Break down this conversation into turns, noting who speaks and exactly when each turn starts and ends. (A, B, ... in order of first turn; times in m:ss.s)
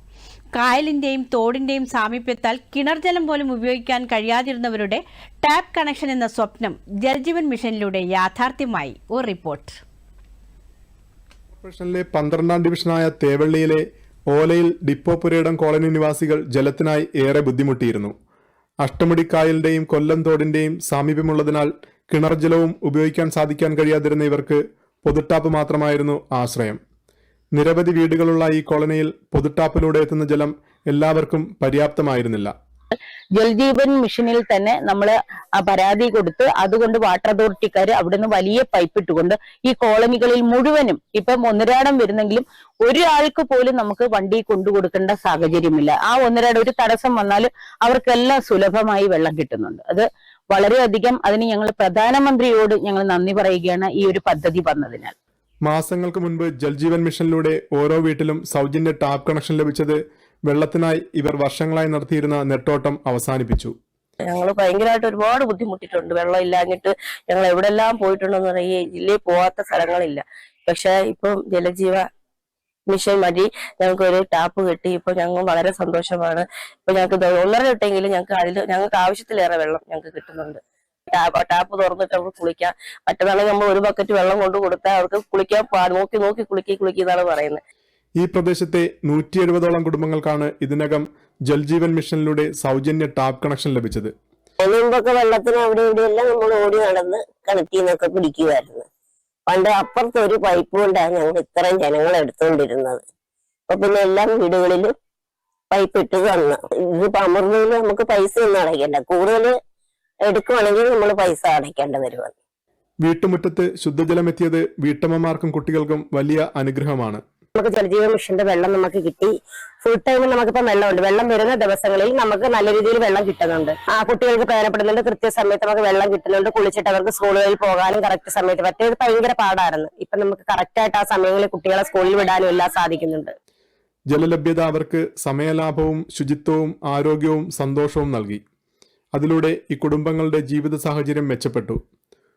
0:00.5-0:09.8 A
0:11.6-0:18.1 B
0:18.8-0:26.8 B
0:27.5-0:32.5 B
0:33.3-0:55.1 C
0:55.6-1:03.7 B
1:04.3-1:12.0 D
1:12.9-1:20.6 D
1:21.1-1:27.6 D
1:28.2-1:34.1 B
1:34.6-1:38.8 E
1:39.5-1:43.0 E
1:43.7-1:44.9 E
1:45.7-1:49.5 E
1:50.3-1:52.3 E
1:53.0-1:57.2 B
1:57.6-2:13.3 E
2:14.1-2:18.4 B
2:19.1-2:21.8 B